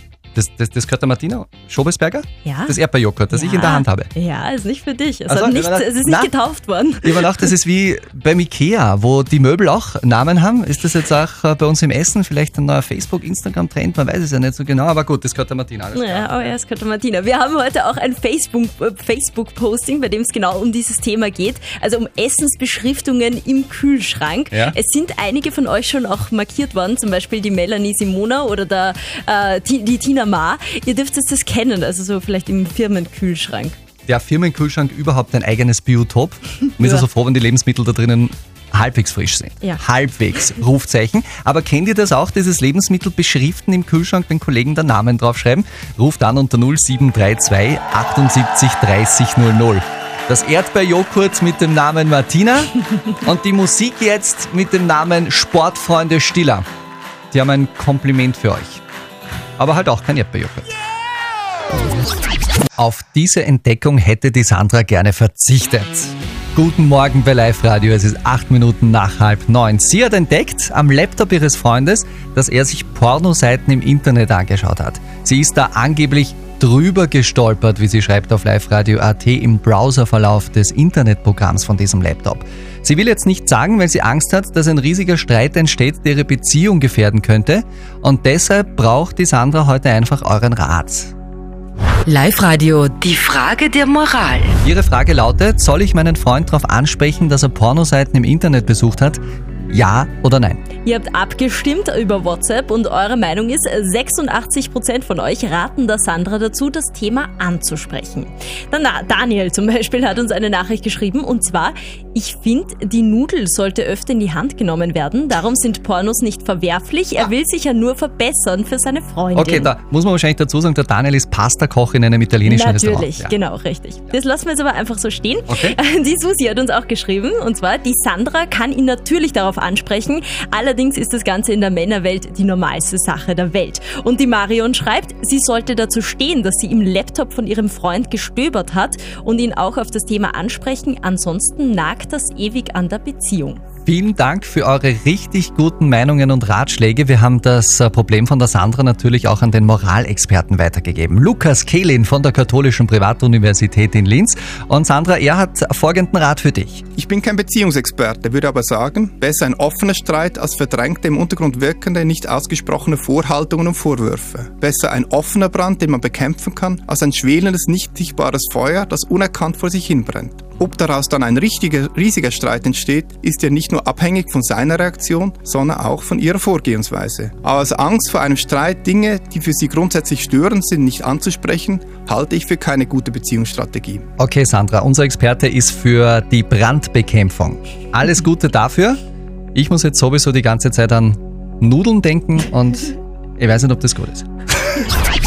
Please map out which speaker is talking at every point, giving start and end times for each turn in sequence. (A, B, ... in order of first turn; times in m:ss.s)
0:00.3-0:04.1 A
0:02.4-0:02.8 B
0:03.3-0:07.5 B
0:05.3-0:06.3 A
0:07.0-0:16.5 A
0:15.9-0:33.8 B
0:34.1-0:56.7 A
0:36.8-0:37.0 B
0:57.3-0:58.8 A
0:59.6-1:00.7 A
1:02.8-1:31.1 A
1:32.1-1:34.5 C
1:34.6-1:40.6 A
1:40.8-1:59.7 B
1:59.4-2:03.3 A
2:02.4-2:23.6 B
2:05.5-2:05.8 A
2:23.9-2:36.9 A
2:37.0-3:04.1 D
3:04.2-3:09.0 A
3:09.6-3:14.3 A